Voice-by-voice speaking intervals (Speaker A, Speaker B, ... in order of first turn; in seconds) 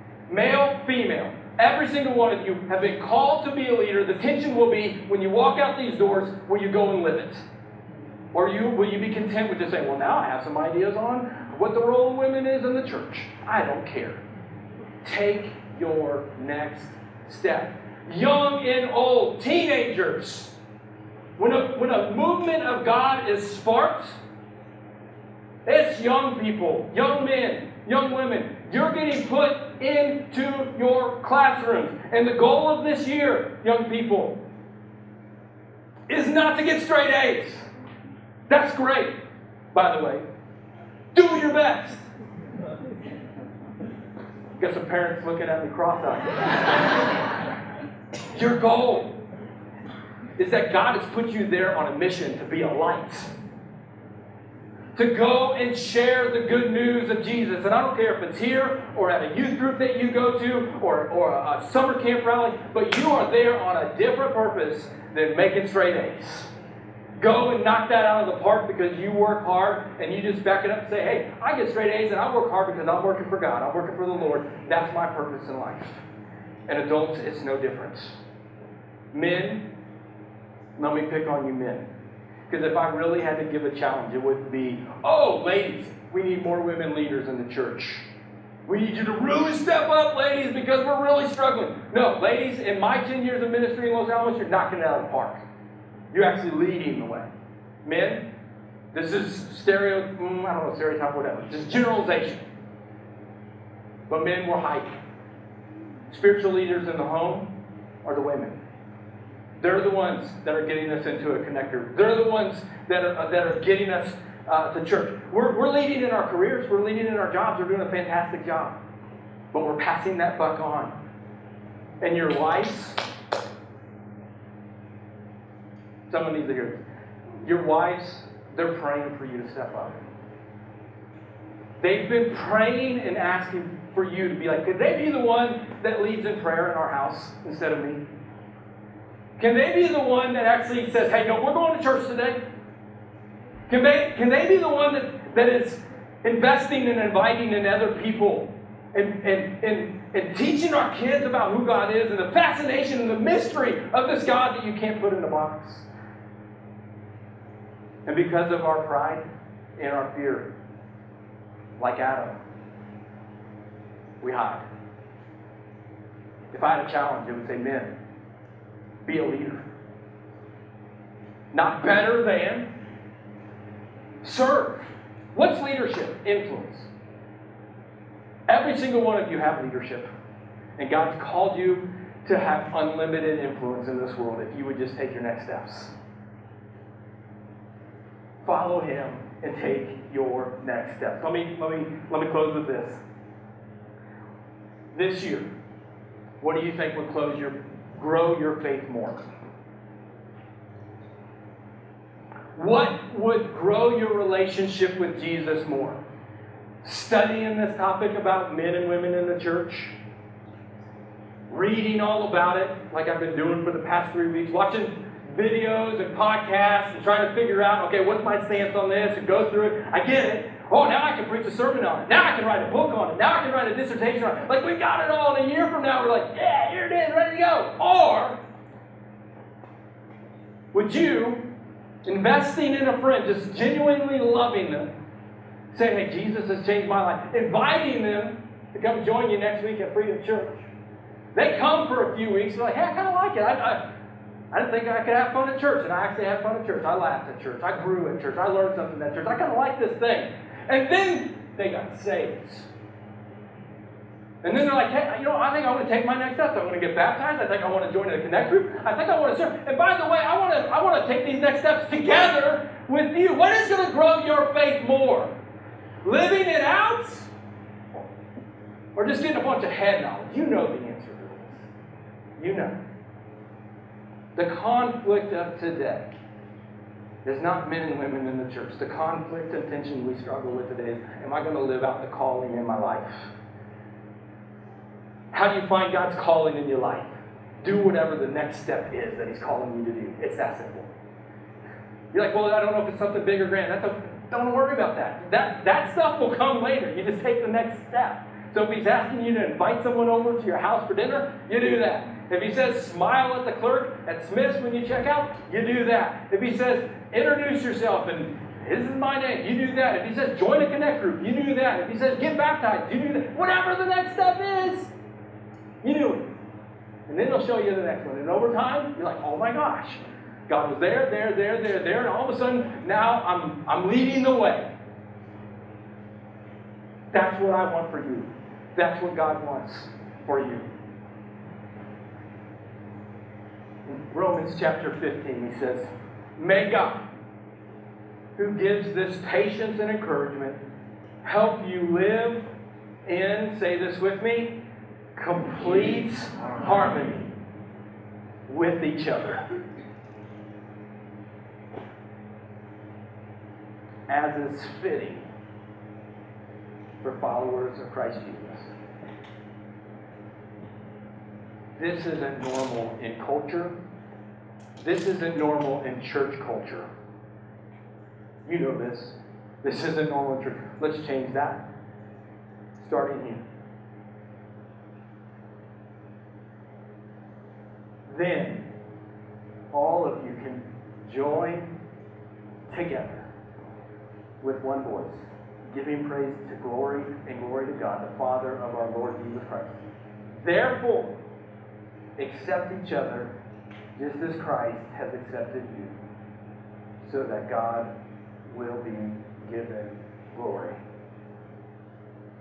Speaker A: 0.3-7.4, 8.3-14.2, 15.0-20.5, 21.4-24.2, 25.6-34.4, 36.1-37.7, 38.5-39.1, 39.7-40.2, 41.1-42.1, 44.6-46.7, 48.3-49.1, 50.4-53.3, 55.0-66.5, 67.2-76.0, 76.7-78.2, 79.1-79.6, 80.8-81.8, 82.5-88.1, 88.7-95.4, 96.1-97.3, 97.8-98.2, 98.9-102.5, 104.1-105.0, 106.1-107.5, 108.0-108.6, 109.6-118.7, 119.5-120.9, 122.0-123.0, 126.1-126.8, 127.4-130.0, 131.8-138.0, 139.4-142.4, 143.7-155.9, 158.1-159.2, 159.8-160.5, 161.8-162.4, 164.2-164.6, 166.5-167.9, 169.1-169.6, 171.5-172.7, 174.2-176.9, 178.5-180.1, 180.8-185.9, 188.4-193.0, 194.9-195.5, 196.4-199.2, 202.6-206.0, 206.8-209.9, 211.5-228.4, 230.7-231.4, 232.1-234.9, 235.7-240.7, 241.3-243.8, 244.5-252.7, 254.4-265.3, 266.0-267.3, 268.9-271.7, 272.4-272.7, 274.4-276.1, 277.2-283.3, 285.3-287.1, 287.6-290.9, 292.1-314.9, 315.8-316.2, 317.1-324.7, 327.1-330.7, 333.8-337.0, 338.4-340.6, 341.2-342.4, 343.1-344.5, 345.1-347.3, 348.5-349.4, 354.1-355.2, 357.0-358.7, 361.8-363.7, 364.8-366.9, 368.4-371.6, 372.8-373.4, 378.1-378.7, 379.7-381.7, 382.7-383.3, 384.4-389.8, 390.4-391.2, 392.2-393.3, 393.9-395.9, 397.0-397.9, 398.4-400.8